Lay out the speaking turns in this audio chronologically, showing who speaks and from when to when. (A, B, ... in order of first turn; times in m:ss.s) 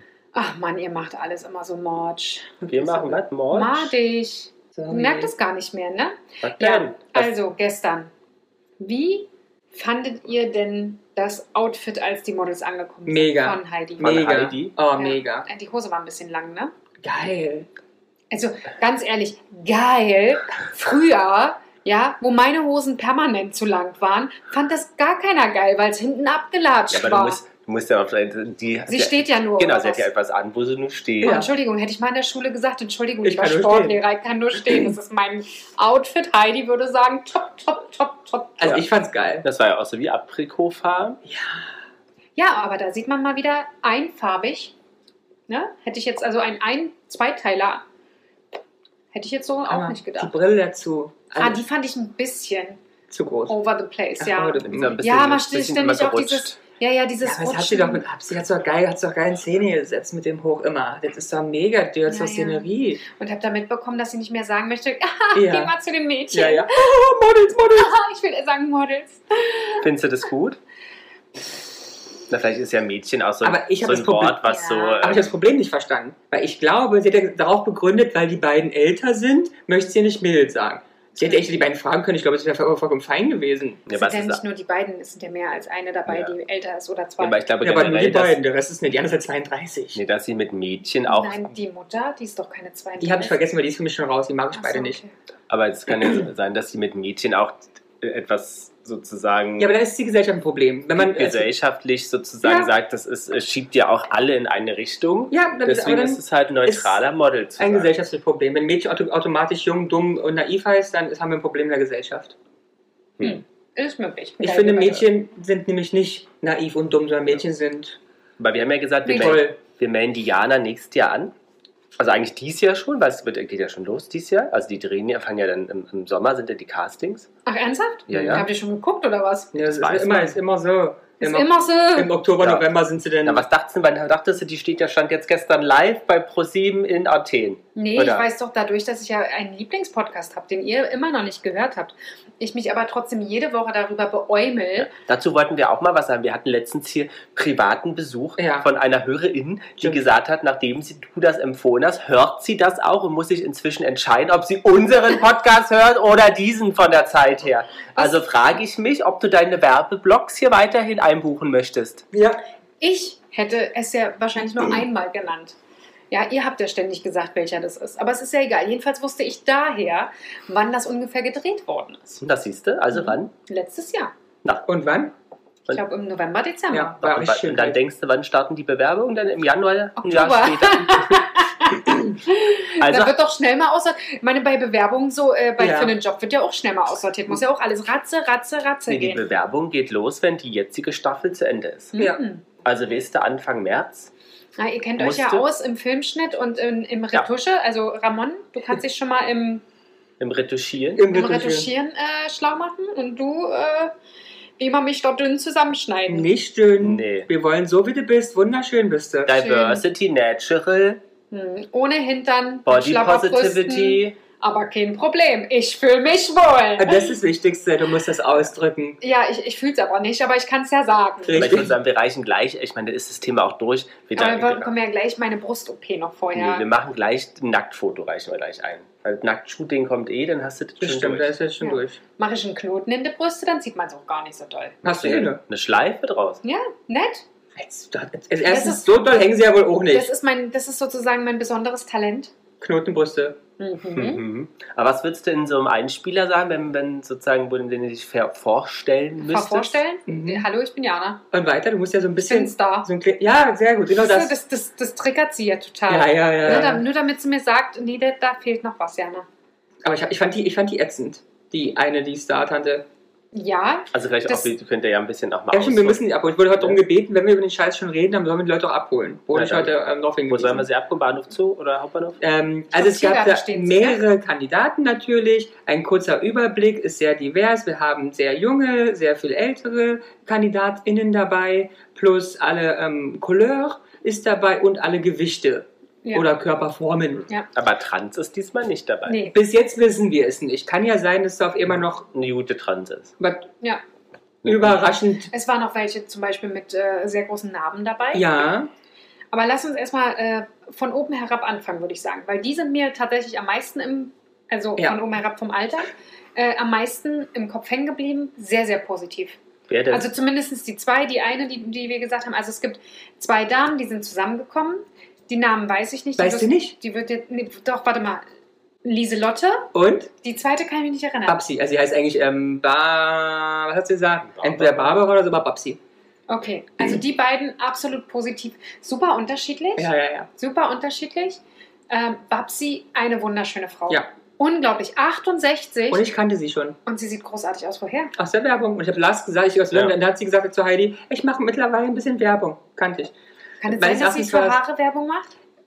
0:00.3-0:02.6 A
0:02.6-0:03.2 B
0:02.7-0:03.9 C
0:03.5-0:08.1 A
0:04.7-0:05.3 B
0:06.4-0:07.3 C
0:08.8-0:14.1 A
0:13.1-0:15.5 B
0:14.0-0:14.7 C
0:15.0-0:16.7 A
0:17.0-0:17.7 B
0:18.3-0:27.4 A
0:26.9-0:31.4 C
0:28.9-0:30.1 A
0:31.2-0:31.5 B
0:31.2-0:38.8 A
0:33.2-0:34.0 B
0:38.6-0:39.4 B
0:39.4-0:41.2 C
0:41.2-0:41.7 B
0:42.4-0:44.7 A
0:45.5-0:47.8 A
0:49.1-0:50.3 A
0:49.7-0:51.6 B
0:51.4-0:52.8 A
0:53.1-0:53.6 B
0:53.5-0:58.0 A
0:54.2-0:55.0 B
0:54.6-0:56.6 C
0:57.2-1:03.0 B
1:02.1-1:06.7 A
1:05.3-1:05.7 B
1:06.3-1:07.9 B
1:07.7-1:09.8 A
1:09.8-1:10.6 C
1:12.3-1:15.3 C
1:13.4-1:23.8 B
1:14.4-1:15.0 A
1:23.9-1:24.4 C
1:23.9-1:27.4 A
1:26.1-1:26.3 C
1:27.2-1:28.4 C
1:27.6-1:30.0 B
1:29.9-1:31.5 C
1:31.1-1:33.4 A
1:33.0-1:35.0 B
1:34.5-1:35.1 A
1:35.5-1:39.8 C
1:39.6-1:41.5 B
1:41.0-1:47.9 C
1:42.4-1:42.7 B
1:45.3-1:47.0 B
1:47.6-1:52.3 B
1:53.2-1:55.1 A
1:54.4-1:58.0 B
1:58.4-2:01.3 C
1:59.0-1:59.4 A
1:59.0-1:59.6 B
2:02.0-2:07.3 C
2:07.4-2:09.5 A
2:08.1-2:08.5 C
2:08.1-2:08.4 B
2:09.5-2:13.4 B
2:09.6-2:10.4 C
2:11.2-2:12.1 A
2:12.4-2:12.7 C
2:13.2-2:18.2 C
2:17.8-2:24.9 A
2:24.8-2:42.0 C
2:28.4-2:28.7 B
2:42.1-2:42.4 B
2:42.8-2:45.6 A
2:46.1-2:52.2 A
2:52.2-2:53.3 C
2:52.9-2:54.1 A
2:54.7-2:55.1 B
2:55.7-2:57.0 A
2:56.7-2:57.8 B
2:57.0-3:01.3 C
3:00.0-3:09.2 A
3:02.8-3:03.1 C
3:05.6-3:05.9 B
3:08.9-3:11.9 C
3:11.9-3:12.4 A
3:12.6-3:14.1 C
3:14.6-3:19.6 A
3:15.0-3:15.4 C
3:20.2-3:21.0 C
3:21.0-3:21.7 B
3:21.1-3:23.9 A
3:24.6-3:26.3 A
3:26.1-3:29.3 B
3:26.8-3:27.3 C
3:29.3-3:31.0 C
3:29.3-3:29.8 A
3:31.3-3:37.1 A
3:32.6-3:34.2 C
3:36.8-3:39.0 B
3:39.0-3:41.6 A
3:41.2-3:41.7 B
3:41.3-3:44.7 C
3:44.2-3:46.6 A
3:46.3-3:51.3 C
3:50.8-3:52.0 B
3:51.6-3:54.8 A
3:54.8-3:55.4 B
3:54.9-3:56.4 C
3:56.4-3:57.2 A
3:57.6-4:00.1 B
3:58.4-3:58.9 A
3:59.9-4:02.3 A
4:02.6-4:03.4 B
4:03.6-4:04.2 A
4:03.9-4:09.8 C
4:09.2-4:11.2 A
4:10.1-4:10.4 B
4:11.3-4:14.3 B
4:12.2-4:12.9 A
4:13.9-4:19.3 A
4:15.9-4:16.8 B
4:19.8-4:22.8 B
4:23.3-4:24.5 A
4:23.9-4:26.0 C
4:25.5-4:30.6 B
4:29.3-4:29.7 C
4:30.3-4:32.2 C
4:32.2-4:47.3 B
4:32.7-4:34.0 A
4:47.5-4:49.2 C
4:49.1-4:49.4 A
4:49.3-4:52.0 B
4:52.1-4:53.1 C
4:53.2-4:53.5 B
4:54.4-4:55.3 B
4:54.4-4:54.8 C
4:55.3-4:58.3 A
4:58.1-4:58.7 B
4:59.3-5:09.4 A
5:09.7-5:10.1 C
5:09.9-5:18.2 A
5:16.2-5:16.7 B
5:18.8-5:19.7 A
5:19.7-5:20.1 B
5:20.2-5:21.4 A
5:21.3-5:25.8 B
5:24.3-5:25.0 C
5:26.3-5:36.1 A
5:29.8-5:30.3 B
5:35.9-5:36.8 B
5:36.8-5:38.1 A
5:38.2-5:43.1 B
5:43.6-5:45.3 A
5:43.7-5:44.6 B